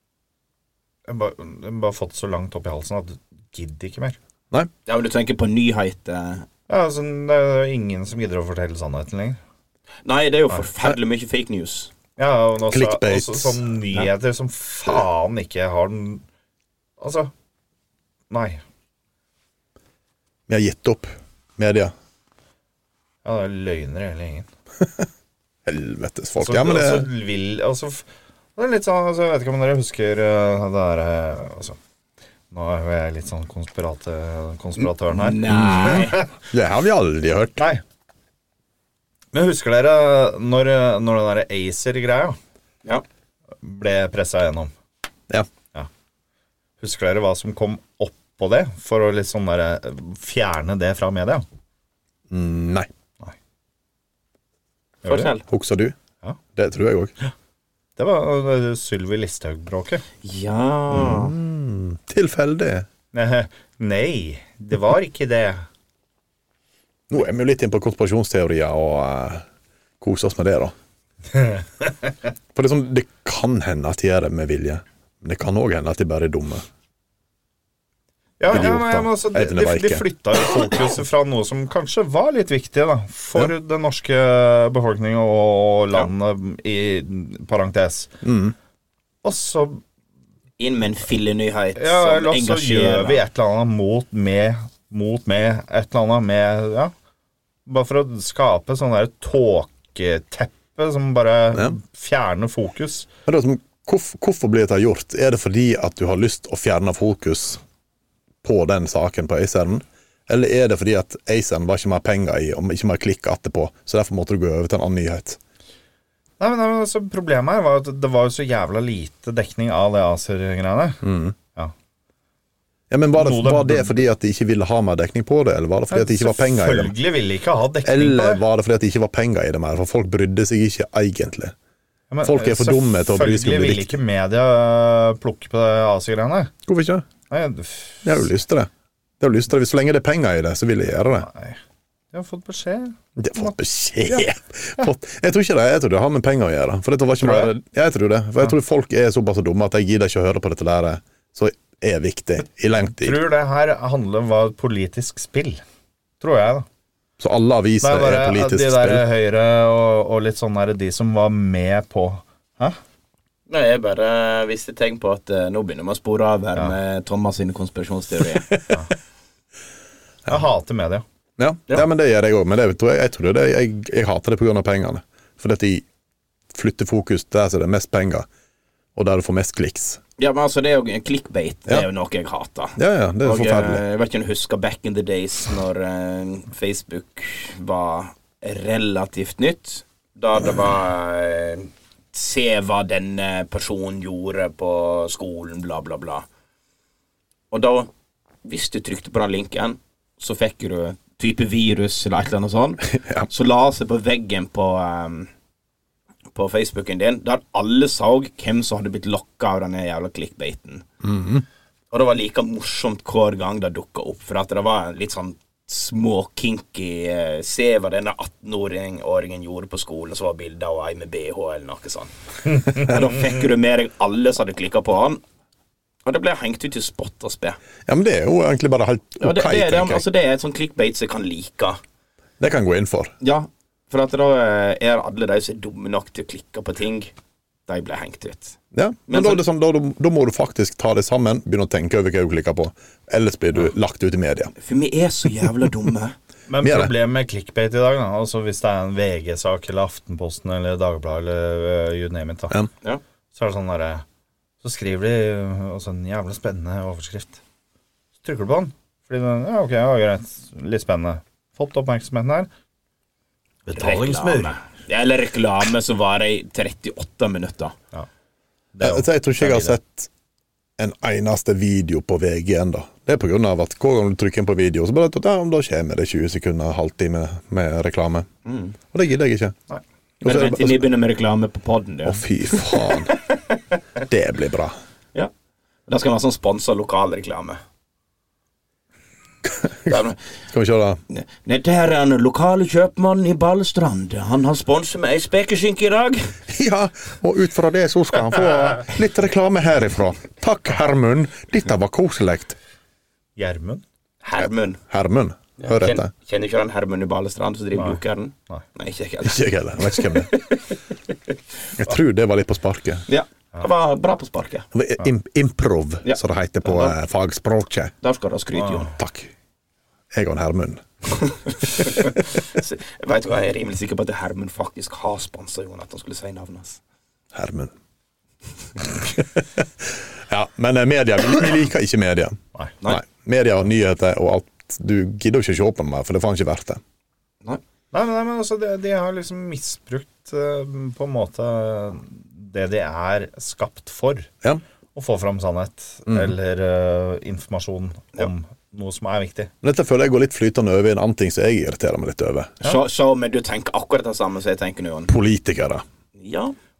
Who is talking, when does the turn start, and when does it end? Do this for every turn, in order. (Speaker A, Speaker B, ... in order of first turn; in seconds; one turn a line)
Speaker A: 1.1-4.2
Speaker B: 4.9-6.5
Speaker A: 6.7-9.4
Speaker B: 10.0-11.9
Speaker A: 12.2-16.2
Speaker C: 12.7-13.6
Speaker A: 17.0-17.3
Speaker A: 18.3-18.6
Speaker C: 20.5-21.9
Speaker A: 23.2-24.5
Speaker C: 24.8-25.1
Speaker C: 25.6-27.1
Speaker A: 26.4-31.8
Speaker A: 32.5-35.4
Speaker B: 35.1-36.2
Speaker C: 35.5-37.6
Speaker A: 35.9-36.2
Speaker A: 37.6-37.8
Speaker A: 39.3-42.4
Speaker A: 43.6-44.7
Speaker A: 46.8-51.4
Speaker C: 52.3-52.9
Speaker A: 55.0-55.3
Speaker B: 55.0-55.4
Speaker C: 55.5-55.9
Speaker C: 56.5-57.1
Speaker A: 58.0-60.0
Speaker B: 60.2-61.4
Speaker C: 60.9-62.9
Speaker A: 63.1-65.7
Speaker C: 67.1-69.4
Speaker C: 70.0-70.7
Speaker C: 72.5-76.6
Speaker A: 78.4-88.1
Speaker C: 78.5-80.3
Speaker C: 88.2-88.5
Speaker A: 89.2-89.8
Speaker B: 90.6-93.2
Speaker A: 91.8-96.9
Speaker A: 97.7-103.1
Speaker C: 103.3-107.6
Speaker C: 108.4-115.4
Speaker A: 116.4-121.7
Speaker C: 121.0-121.3
Speaker C: 122.9-127.0
Speaker A: 123.1-124.0
Speaker A: 125.9-128.4
Speaker C: 127.8-131.5
Speaker A: 132.1-136.5
Speaker C: 132.2-134.0
Speaker C: 136.7-137.0
Speaker A: 137.3-138.3
Speaker C: 138.0-141.3
Speaker A: 141.2-141.6
Speaker A: 142.1-144.3
Speaker C: 143.2-153.2
Speaker A: 147.2-147.5
Speaker A: 152.9-155.6
Speaker A: 156.2-156.7
Speaker C: 157.2-159.0
Speaker A: 157.8-162.8
Speaker B: 163.5-168.5
Speaker A: 170.3-171.0
Speaker C: 171.4-175.8
Speaker C: 176.5-178.3
Speaker C: 178.9-180.0
Speaker B: 180.2-196.2
Speaker C: 182.8-183.8
Speaker B: 197.5-197.9
Speaker B: 198.4-205.3
Speaker C: 202.9-203.3
Speaker B: 206.3-210.8
Speaker C: 211.0-211.4
Speaker B: 211.9-225.2
Speaker B: 226.0-227.6
Speaker C: 227.8-230.0
Speaker B: 229.2-231.8
Speaker C: 232.4-233.1
Speaker B: 233.2-237.1
Speaker B: 237.7-238.6
Speaker C: 238.7-244.5
Speaker B: 239.1-239.4
Speaker B: 244.6-246.2
Speaker A: 246.5-252.6
Speaker C: 246.6-246.9
Speaker A: 253.3-254.0
Speaker A: 254.6-257.4
Speaker A: 258.2-262.5
Speaker A: 263.7-264.5
Speaker B: 263.7-267.7
Speaker A: 268.7-269.8
Speaker C: 268.8-270.1
Speaker C: 270.8-278.3
Speaker B: 278.4-278.7
Speaker C: 278.9-279.6
Speaker C: 280.2-280.9
Speaker B: 280.2-283.6
Speaker C: 282.0-283.1
Speaker C: 284.1-284.8
Speaker B: 285.9-287.6
Speaker C: 289.4-291.0
Speaker B: 289.9-290.2
Speaker B: 291.1-296.4
Speaker C: 296.5-302.6
Speaker A: 303.4-303.8
Speaker B: 304.2-304.8
Speaker C: 304.4-306.1
Speaker B: 305.6-311.3
Speaker A: 307.7-308.6
Speaker C: 309.2-310.3
Speaker C: 311.8-313.0
Speaker B: 313.1-314.7
Speaker C: 314.7-317.9
Speaker B: 318.0-318.9
Speaker A: 318.6-318.9
Speaker C: 319.0-319.3
Speaker C: 320.1-320.8
Speaker B: 321.2-326.8
Speaker C: 327.3-327.7
Speaker C: 328.9-336.8
Speaker A: 337.9-344.3
Speaker A: 344.9-349.5
Speaker C: 349.6-352.6
Speaker B: 352.6-355.1
Speaker C: 355.1-355.8
Speaker B: 356.2-356.5